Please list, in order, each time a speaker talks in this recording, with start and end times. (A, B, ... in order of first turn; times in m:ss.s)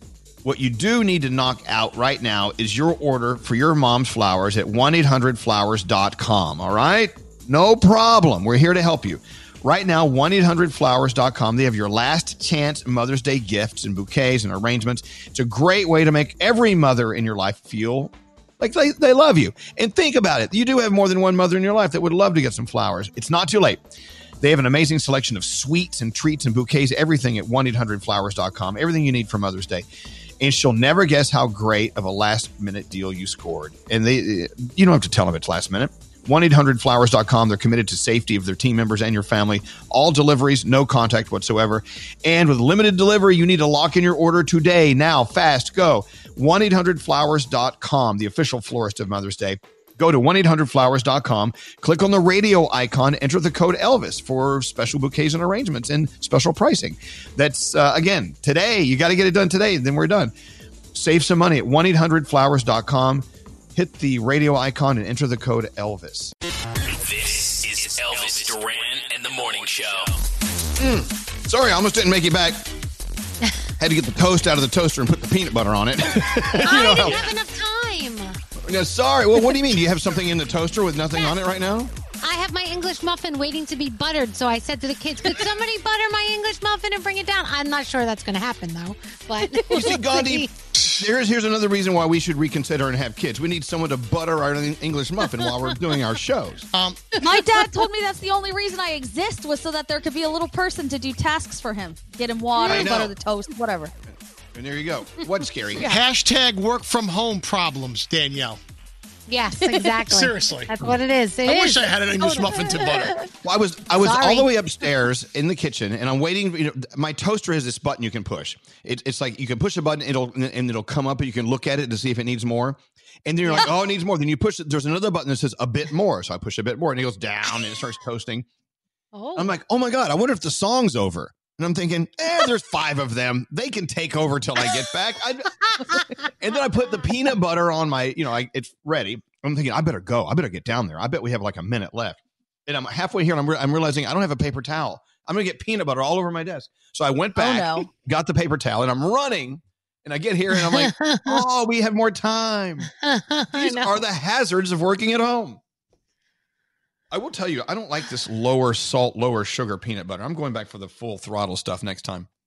0:00.4-0:23.8 A
0:24.4-0:29.8 A
0:30.4-1:00.3 A
1:00.9-1:06.3 A
1:07.0-1:10.2 B
1:10.8-1:12.6 A
1:13.8-1:17.3 A
1:16.5-1:18.4 C
1:18.7-1:21.9 A
1:22.2-1:30.5 C
1:29.6-1:36.7 A
1:36.7-1:37.0 D
1:37.2-1:43.9 E
1:37.4-1:37.6 C
1:42.7-1:43.1 A
1:44.5-1:45.9 A
1:45.8-1:48.6 D
1:49.3-1:52.9 C
1:50.0-1:50.7 D
1:51.4-1:53.1 D
1:53.4-2:08.4 A
1:54.0-1:54.5 C
2:09.1-2:09.5 C
2:09.4-2:15.5 A
2:16.4-2:32.9 A
2:27.4-2:27.9 E
2:30.5-2:31.4 C
2:33.0-2:34.0 C
2:33.5-2:35.6 A
2:37.1-2:42.3 A